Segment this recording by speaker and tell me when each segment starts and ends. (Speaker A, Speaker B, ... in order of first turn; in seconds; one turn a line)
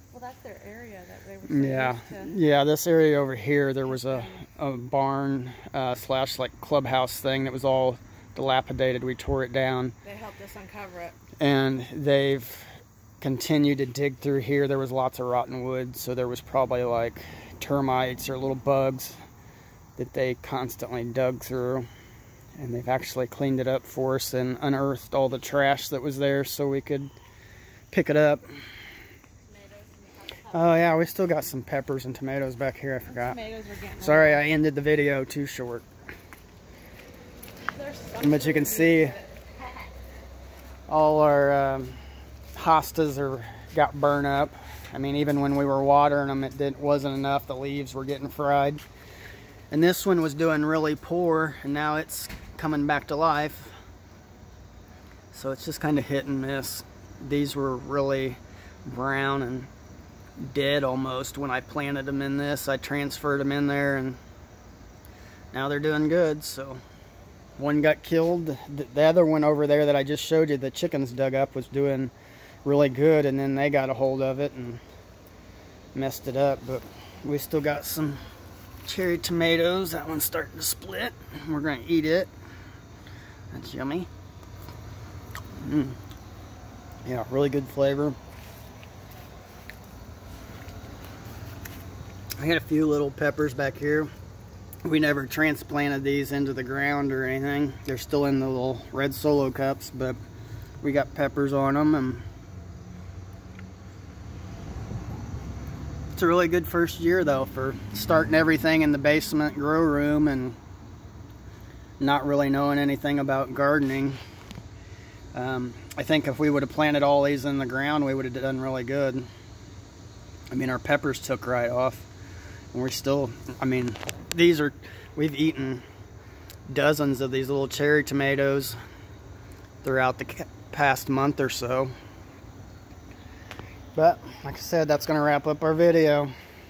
Speaker A: 0.1-2.3
Speaker B: 1.5-9.9
Speaker A: 3.9-4.4
Speaker A: 10.0-11.2
Speaker B: 11.4-19.2
Speaker B: 20.0-21.9
Speaker B: 22.6-27.1
Speaker B: 27.9-28.4
Speaker A: 29.5-31.0
Speaker B: 30.5-33.4
Speaker A: 33.1-34.4
Speaker B: 34.0-35.9
Speaker A: 37.7-39.4
Speaker B: 38.2-39.2
Speaker B: 40.9-42.0
Speaker B: 42.5-48.8
Speaker B: 49.7-53.8
Speaker B: 55.3-59.7
Speaker B: 60.4-64.2
Speaker B: 65.5-66.8
Speaker B: 67.6-72.1
Speaker B: 72.7-74.8
Speaker B: 76.0-78.2
Speaker B: 78.8-82.3
Speaker B: 83.5-84.1
Speaker B: 85.5-86.0
Speaker B: 87.0-88.2
Speaker B: 92.4-94.1
Speaker B: 94.8-100.2
Speaker B: 100.8-102.3
Speaker B: 106.2-110.6
Speaker B: 112.0-114.2
Speaker B: 115.3-119.3
Speaker B: 120.5-122.1
Speaker B: 122.7-125.8
Speaker B: 126.7-128.8
Speaker B: 129.8-131.9
Speaker B: 133.9-136.3